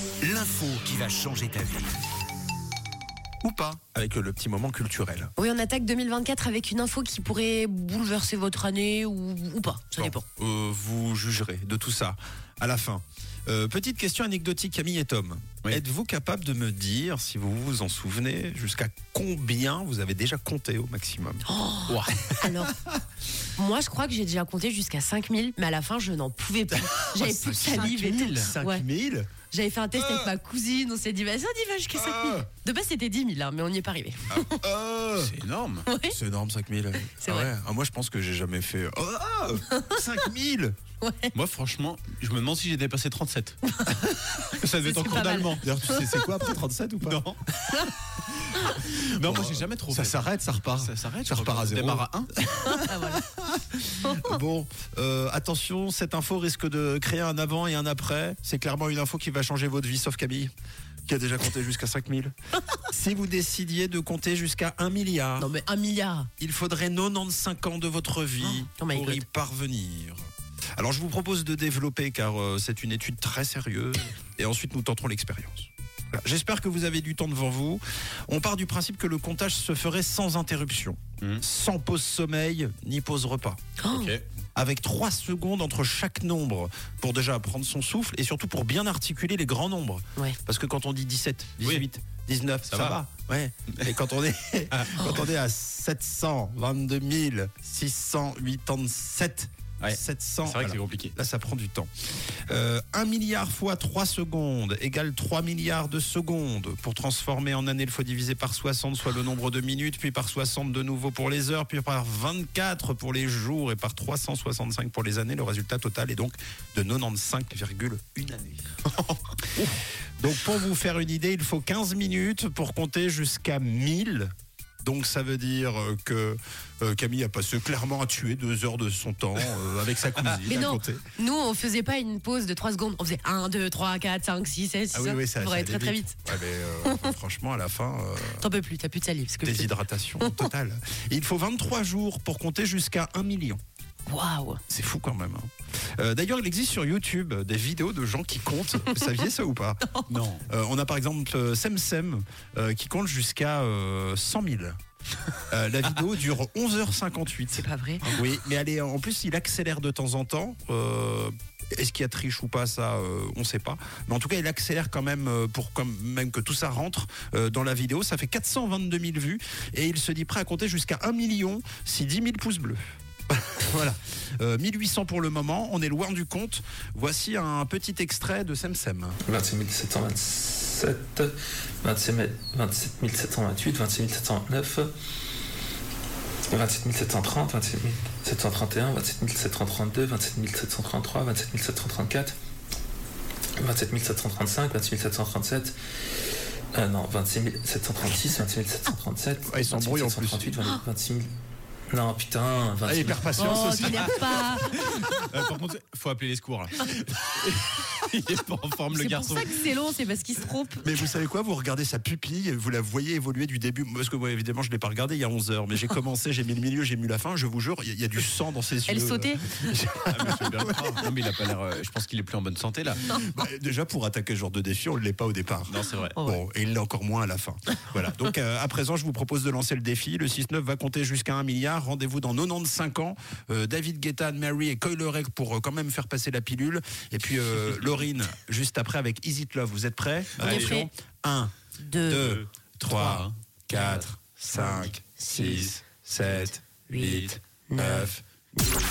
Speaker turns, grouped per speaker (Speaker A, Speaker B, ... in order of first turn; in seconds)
Speaker A: 0.2-1.9, 3.4-5.3, 10.0-21.4, 22.4-22.9, 26.8-29.3, 29.9-30.3, 31.9-32.5, 34.3-35.3, 36.1-40.8, 45.5-47.2, 48.2-60.5, 61.0-65.5, 66.4-70.2, 70.8-83.6, 84.5-101.9, 102.5-118.7, 119.6-131.0, 134.9-138.4, 139.4-143.6, 144.7-149.9, 150.4-154.8, 155.5-179.2, 199.4-200.5, 202.8-204.5, 210.8-220.4, 223.1-248.2
Speaker B: 5.4-10.2, 21.5-22.7, 23.6-28.8, 29.5-34.6, 35.9-36.1, 37.2-37.5, 39.7-40.0, 41.0-41.3, 43.7-46.0, 52.7-53.2, 54.0-54.3, 65.4-66.3, 68.4-69.2, 83.8-84.1, 130.4-136.2, 136.8-137.1, 138.3-140.5, 144.1-144.6, 157.6-158.2, 203.4-204.7, 208.9-211.1, 218.9-219.7, 240.4-240.9, 241.8-242.2, 246.9-248.1
Speaker C: 21.9-22.3, 27.4-28.5, 35.2-35.9, 41.3-43.6, 44.6-45.7, 47.0-47.4, 49.2-52.3, 83.9-84.2, 92.7-93.0, 94.7-95.2, 99.8-101.1, 118.8-119.6, 129.8-130.5, 150.1-150.4, 203.8-209.6, 220.1-223.2, 225.7-226.2, 237.7-237.9, 240.4-240.8, 242.2-247.3
Speaker D: 179.2-184.9, 186.5-192.3, 193.6-201.3, 201.9-203.8